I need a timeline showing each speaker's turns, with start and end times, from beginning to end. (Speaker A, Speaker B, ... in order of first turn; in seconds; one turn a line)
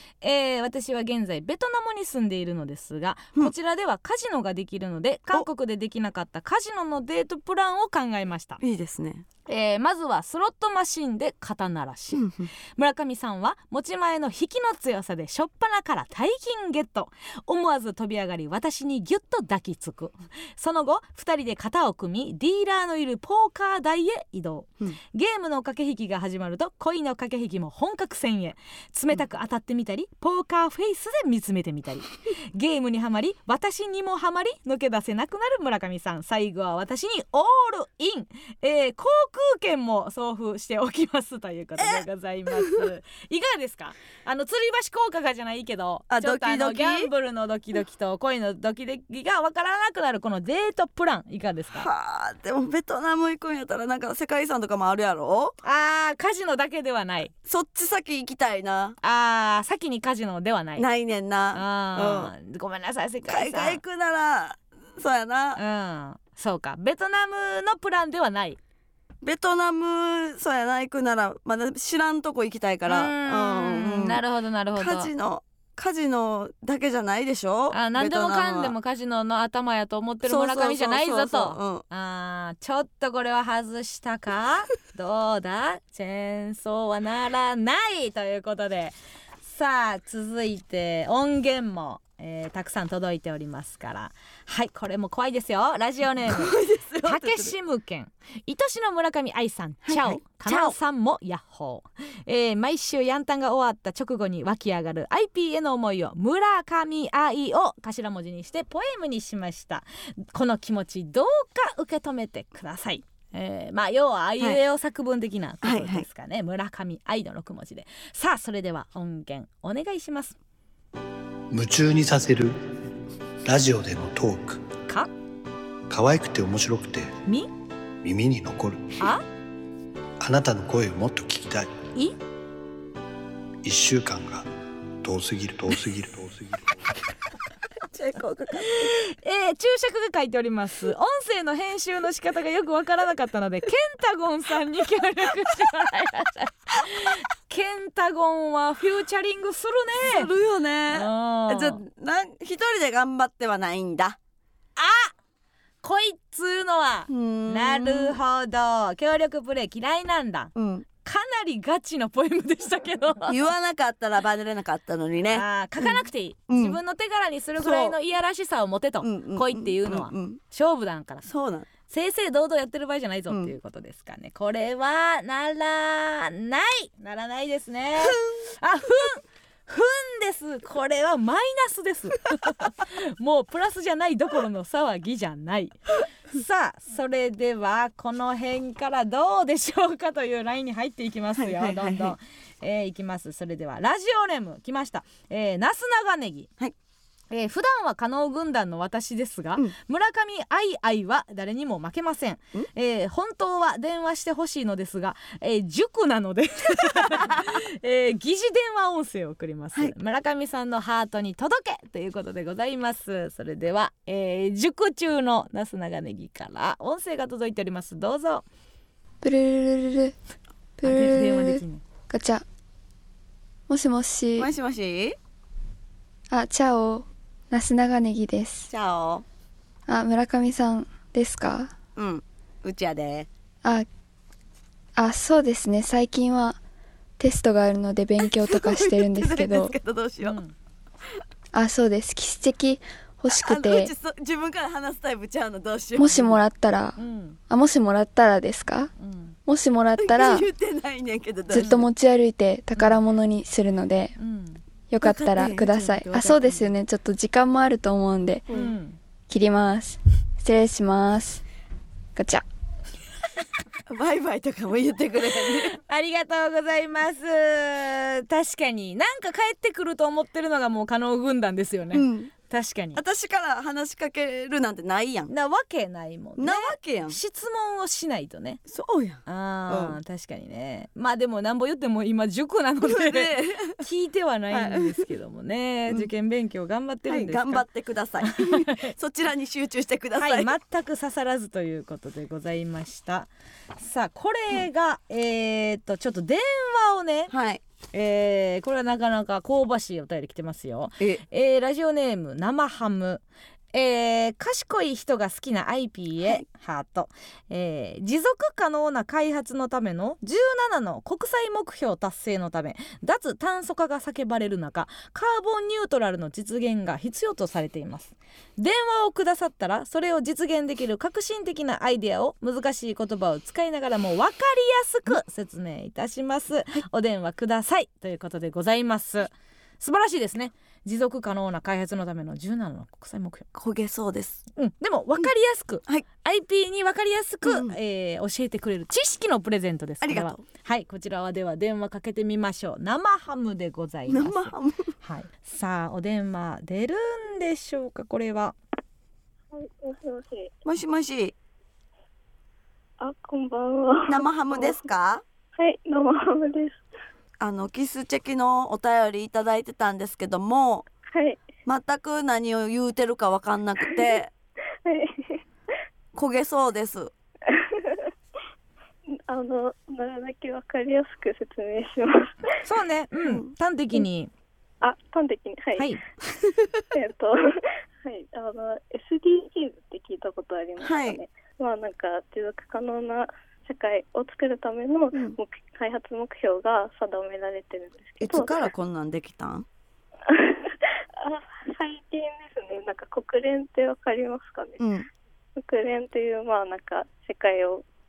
Speaker A: 0.2-8.6
Speaker B: 8.6-9.2
Speaker A: 9.5-51.9
Speaker B: 12.1-12.5
Speaker B: 46.1-47.1
Speaker B: 51.7-55.5
Speaker A: 55.6-57.3
Speaker B: 57.5-59.0
Speaker A: 59.0-60.9
Speaker B: 60.8-62.3
Speaker A: 61.5-63.8
Speaker B: 63.3-65.6
Speaker A: 65.6-68.6
Speaker B: 69.2-74.2
Speaker A: 72.9-75.1
Speaker B: 74.8-78.7
Speaker A: 77.7-120.3
Speaker B: 80.2-81.8
Speaker B: 96.3-97.5
Speaker B: 99.8-100.7
Speaker B: 115.6-116.0
Speaker C: 121.5-122.5
Speaker C: 123.4-124.6
Speaker C: 125.9-127.1
Speaker C: 128.0-129.1
Speaker C: 130.2-131.7
Speaker C: 133.6-134.5
Speaker C: 135.0-136.7
Speaker B: 137.9-138.9
Speaker A: 138.8-150.3
Speaker B: 150.0-154.2
Speaker A: 150.9-151.8
Speaker A: 154.8-155.1
Speaker A: 155.8-160.5
Speaker B: 157.1-158.2
Speaker B: 160.5-160.8
Speaker A: 161.0-163.4
Speaker B: 163.3-166.8
Speaker A: 165.3-171.2
Speaker B: 167.6-167.9
Speaker B: 169.0-170.4
Speaker B: 171.2-171.7
Speaker A: 171.9-196.5
Speaker B: 191.4-192.2
Speaker A: 197.3-218.4
Speaker B: 207.1-207.4
Speaker D: 219.2-220.1
Speaker D: 220.8-222.4
Speaker A: 220.8-221.8
Speaker D: 223.7-224.5
Speaker B: 224.4-225.2
Speaker D: 226.3-228.7
Speaker B: 228.7-229.2
Speaker D: 229.9-231.7
Speaker B: 231.9-233.3
Speaker D: 234.9-236.6
Speaker D: 237.2-239.7
Speaker B: 238.2-240.4
Speaker A: 240.2-240.5
Speaker D: 241.5-243.9
Speaker B: 243.3-246.4
Speaker D: 246.0-248.9
Speaker A: 247.0-247.4
Speaker A: 249.0-249.3
Speaker D: 249.4-250.4
Speaker B: 250.0-251.8
Speaker D: 251.5-254.2
Speaker A: 251.6-251.9
Speaker A: 254.2-254.6
Speaker D: 254.9-258.5
Speaker B: 255.0-256.7
Speaker B: 258.5-258.7
Speaker A: 258.5-259.0
Speaker D: 259.3-261.4
Speaker D: 262.1-262.4
Speaker B: 263.9-265.8
Speaker A: 265.7-273.0
Speaker B: 271.9-272.3
Speaker B: 272.9-275.3
Speaker A: 275.3-278.6
Speaker B: 276.4-277.2
Speaker B: 278.7-280.0
Speaker A: 279.2-287.6
Speaker B: 282.9-283.8
Speaker B: 284.5-285.1
Speaker B: 287.1-290.5
Speaker A: 288.2-288.9
Speaker A: 290.2-297.3
Speaker B: 297.3-297.6
Speaker A: 297.9-303.2
Speaker A: 303.7-333.5
Speaker B: 333.5-334.4
Speaker A: 334.6-348.5
Speaker B: 337.4-337.8
Speaker B: 340.0-340.4
Speaker B: 344.1-344.9
Speaker E: 349.5-350.5
Speaker B: 350.6-351.3
Speaker E: 353.0-354.8
Speaker B: 354.1-355.2
Speaker E: 355.5-356.8
Speaker B: 357.4-360.9
Speaker E: 361.1-361.4
Speaker B: 361.6-364.3
Speaker E: 364.8-365.4
Speaker B: 366.1-367.1
Speaker E: 367.5-368.1
Speaker E: 369.3-372.6
Speaker A: 372.6-374.3
Speaker B: 373.2-373.5
Speaker E: 374.8-375.9
Speaker E: 376.9-388.7
Speaker B: 380.8-381.2
Speaker B: 388.2-389.7
Speaker E: 390.3-394.8
Speaker B: 394.8-395.1
Speaker E: 395.6-397.9